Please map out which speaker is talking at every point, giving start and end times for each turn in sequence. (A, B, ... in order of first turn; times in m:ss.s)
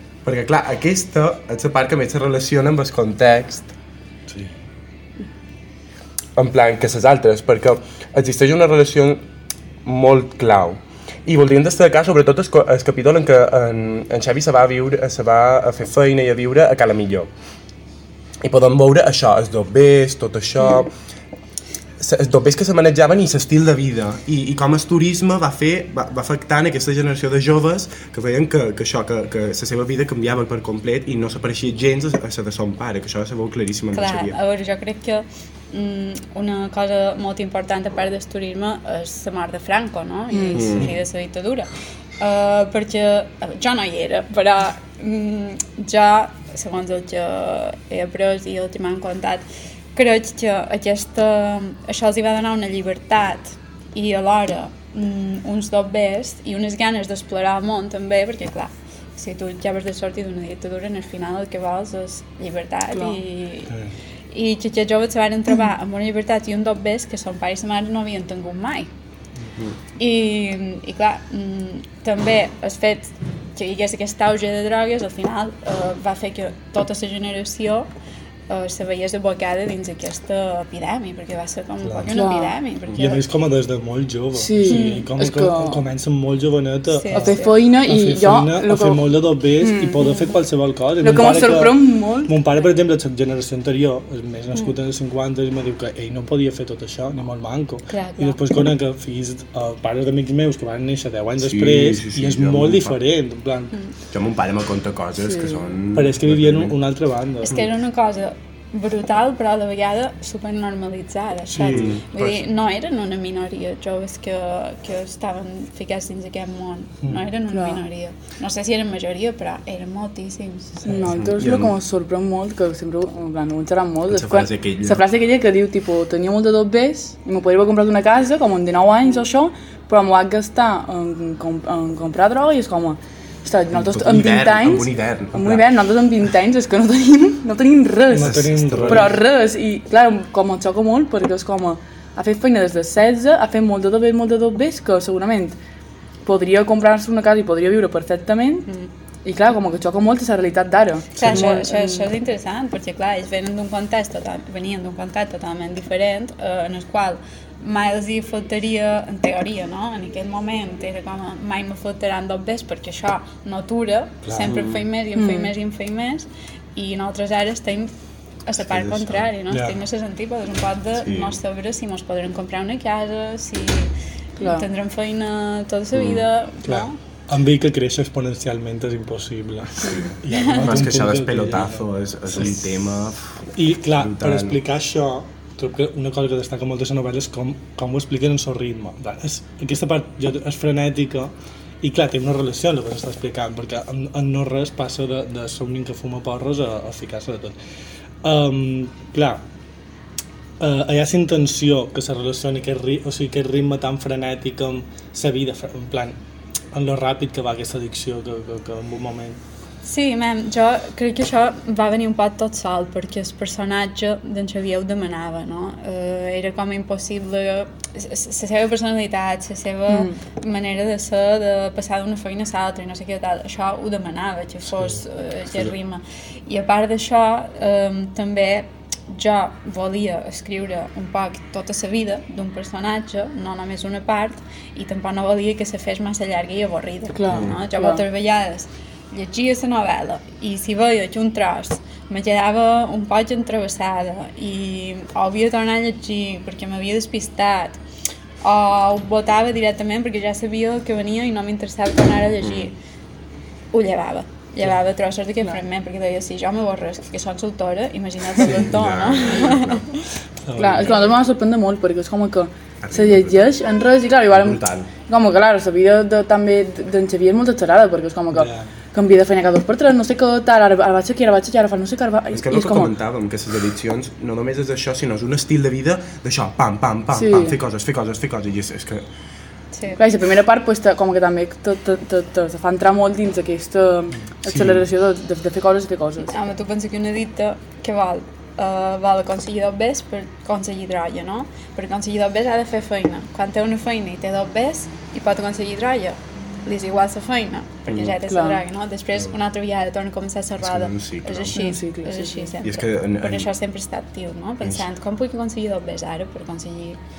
0:00.2-0:03.7 A
0:06.4-0:09.2 A
0:09.8-0:17.3 A
0:18.4-0:20.9 A
0:22.0-0:34.4 A
0:33.9-1:03.7 B
0:40.3-0:40.8 C
0:40.5-0:40.9 A
1:04.3-1:08.9 B
1:10.0-1:17.9 B
1:18.5-1:23.2 B
1:21.8-1:22.1 D
1:22.1-1:22.6 C
1:23.0-1:43.8 D
1:24.4-1:25.9 C
1:24.7-1:25.1 B
1:26.9-1:27.6 B
1:27.1-1:29.1 C
1:29.6-1:30.2 C
1:30.0-1:30.3 B
1:31.0-1:32.3 C
1:37.9-1:38.4 B
1:41.4-1:43.0 A
1:44.1-1:46.8 A
1:45.2-1:45.7 C
1:45.9-1:47.6 D
1:47.4-2:00.9 B
1:51.5-1:52.0 D
1:51.7-1:52.4 A
1:57.5-1:57.8 C
2:00.8-2:25.6 C
2:01.0-2:01.7 A
2:04.1-2:05.0 A
2:13.7-2:15.6 A
2:18.1-2:19.2 D
2:18.2-2:19.2 A
2:26.2-2:28.7 C
2:29.2-2:32.1 C
2:31.2-2:47.9 B
2:31.2-2:31.5 A
2:44.2-2:44.8 A
2:45.2-2:45.5 C
2:48.5-2:57.0 B
2:48.6-2:49.3 A
2:49.5-2:49.8 D
2:51.0-2:51.4 A
2:54.4-2:54.7 C
2:55.9-2:56.2 A
2:56.6-3:02.6 D
2:59.8-3:03.4 A
3:00.3-3:00.6 B
3:03.6-3:17.6 D
3:04.0-3:04.6 A
3:18.2-3:19.4 D
3:20.6-3:26.2 D
3:26.7-3:29.4 D
3:29.8-4:07.8 B
3:39.9-3:40.2 C
3:57.1-3:58.0 C
3:57.3-3:57.6 A
4:08.4-4:12.8 B
4:12.4-4:12.7 A
4:13.7-4:20.0 B
4:18.4-4:19.9 A
4:20.4-4:21.0 D
4:20.6-4:33.0 C
4:22.8-4:23.5 A
4:24.3-4:24.9 A
4:28.3-4:28.7 D
4:32.3-4:39.1 A
4:37.1-4:37.6 C
4:39.7-4:40.0 B
4:40.0-4:46.4 C
4:44.4-4:44.8 D
4:46.3-5:07.0 B
4:57.9-4:58.2 A
4:58.3-4:58.6 C
5:00.6-5:01.6 A
5:01.5-5:02.5 C
5:02.6-5:03.5 A